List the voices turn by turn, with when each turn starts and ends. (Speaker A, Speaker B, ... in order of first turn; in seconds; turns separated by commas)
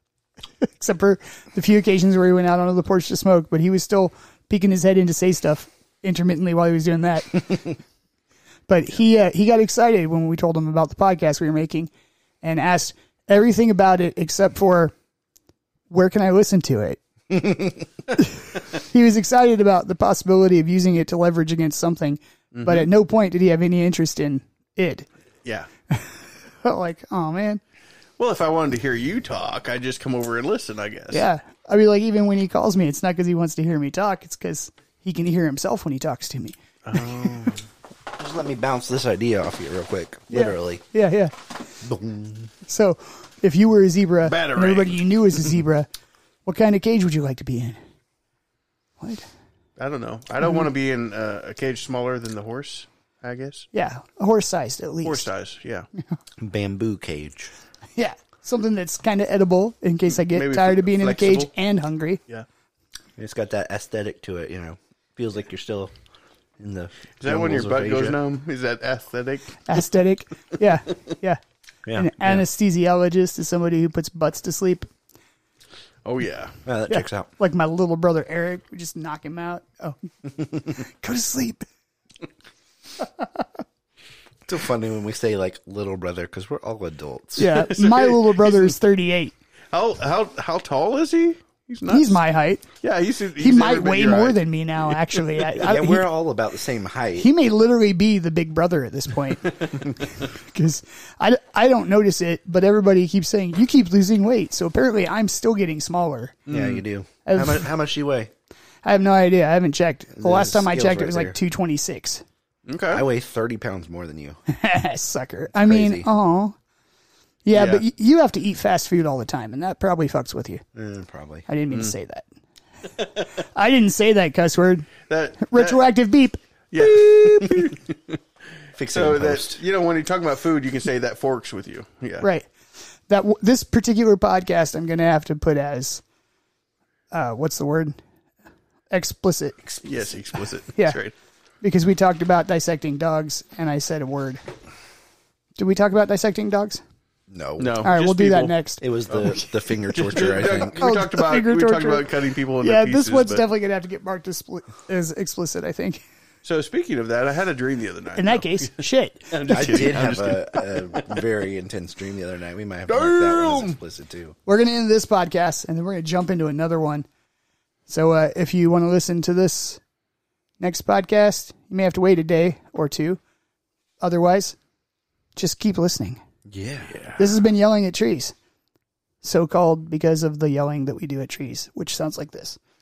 Speaker A: 0.6-7.7, Speaker A: 8.7-11.9, Speaker A: 12.4-14.9, Speaker A: 15.9-17.0, Speaker A: 18.1-25.1, Speaker B: 22.5-22.9, Speaker A: 25.9-27.6, Speaker B: 28.2-31.2, Speaker A: 31.1-36.6, Speaker B: 36.9-37.6, Speaker C: 38.1-40.8, Speaker A: 40.3-41.3, Speaker C: 41.8-42.5, Speaker A: 42.6-45.9, Speaker B: 44.2-45.0, Speaker A: 46.5-47.8, Speaker A: 49.0-49.2, Speaker B: 49.8-53.7, Speaker A: 53.7-55.3, Speaker B: 55.0-55.9, Speaker C: 56.4-57.5, Speaker A: 58.0-62.2, Speaker B: 60.1-61.5, Speaker C: 63.2-65.9, Speaker C: 66.6-68.2, Speaker B: 67.2-69.7, Speaker A: 69.7-71.4, Speaker C: 71.8-72.4, Speaker A: 71.9-74.9, Speaker B: 76.0-76.5, Speaker C: 76.7-77.3, Speaker A: 76.9-81.6, Speaker C: 84.5-87.5, Speaker A: 87.4-89.3, Speaker B: 87.4-88.7, Speaker B: 89.7-92.2, Speaker A: 91.9-92.7, Speaker B: 92.8-95.5, Speaker A: 93.3-96.1, Speaker C: 95.6-97.3, Speaker A: 97.2-106.4, Speaker B: 106.5-106.8, Speaker C: 106.5-108.3, Speaker A: 107.2-107.7, Speaker A: 108.8-112.2, Speaker C: 110.2-111.4, Speaker B: 112.7-113.0, Speaker C: 112.9-114.4, Speaker A: 114.5-116.5, Speaker C: 115.5-116.1, Speaker A: 117.4-120.6, Speaker B: 117.5-117.8, Speaker C: 120.7-121.5, Speaker A: 121.5-122.2, Speaker A: 123.4-124.9, Speaker B: 125.1-125.8, Speaker A: 125.4-126.4, Speaker B: 126.7-128.2, Speaker C: 127.4-127.7, Speaker C: 128.8-129.6, Speaker B: 128.9-132.3, Speaker A: 132.2-132.5, Speaker A: 133.1-136.0, Speaker A: 137.1-137.9, Speaker A: 138.9-139.8, Speaker B: 139.8-141.1, Speaker A: 140.7-141.0, Speaker A: 141.6-144.4, Speaker A: 145.6-146.8, Speaker C: 147.3-147.8, Speaker B: 147.6-148.6, Speaker A: 147.8-149.5, Speaker C: 148.8-150.8, Speaker B: 149.1-149.4, Speaker B: 149.9-153.4, Speaker A: 150.8-156.0, Speaker B: 156.4-161.2, Speaker A: 158.1-159.9, Speaker C: 159.5-164.3, Speaker B: 162.9-163.8, Speaker A: 164.4-167.1, Speaker A: 167.9-169.8, Speaker A: 170.6-173.2, Speaker A: 174.0-174.6, Speaker A: 175.3-176.2, Speaker C: 176.5-176.9, Speaker B: 176.9-177.4, Speaker A: 177.2-178.3, Speaker A: 179.2-182.6